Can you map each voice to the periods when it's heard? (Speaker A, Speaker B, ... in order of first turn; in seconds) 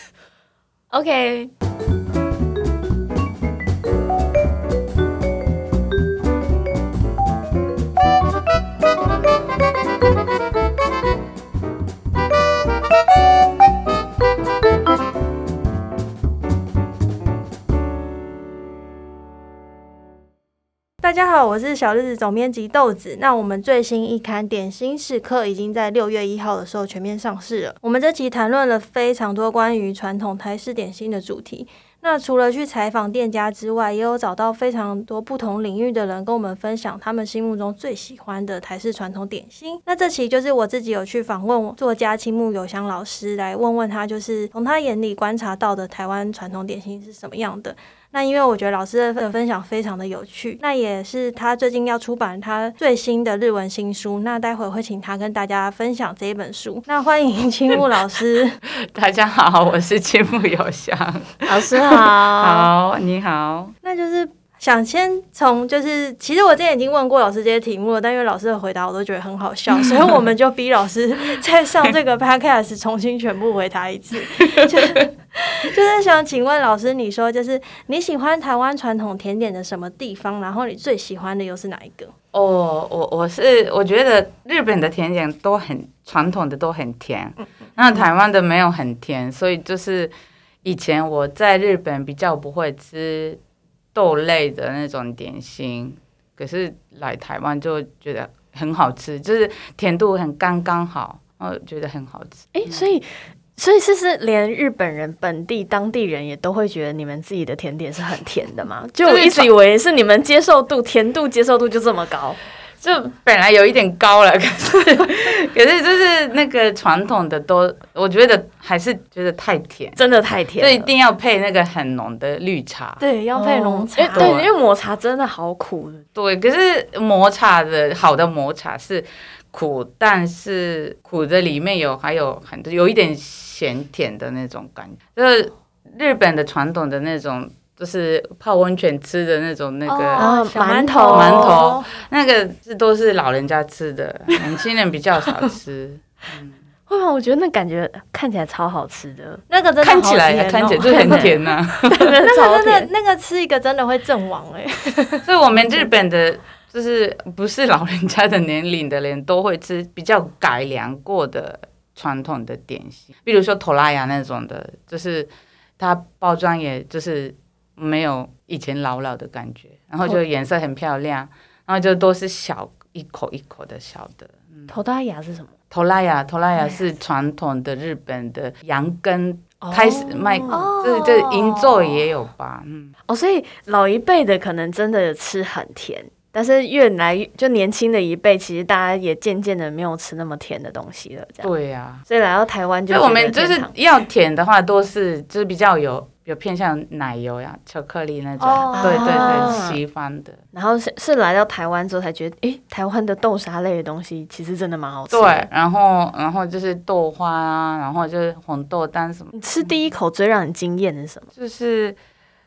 Speaker A: 0.9-1.5, 61.5-62.7, 102.5-112.4, 120.0-120.9, 123.3-126.0, 140.2-141.7, 146.9-149.4, 150.8-152.9, 174.7-175.5, 179.6-181.7, 183.1-191.5, 192.1-193.7, 198.8-199.8, 200.5-205.5, 209.3-211.3
Speaker B: 21.0-58.6, 63.8-82.1, 123.0-124.4, 139.9-141.9, 149.5-151.3, 152.2-155.2, 180.5-181.5, 198.4-199.6
Speaker C: 58.7-63.7, 82.3-90.1, 90.6-93.4, 93.9-102.8, 109.0-109.5, 112.8-120.0, 120.6-123.0, 124.1-124.5, 126.1-140.2, 141.1-146.6, 149.8-152.1, 155.2-174.7, 175.7-182.9, 191.4-192.0, 192.9-200.4, 205.1-209.3, 211.3-212.0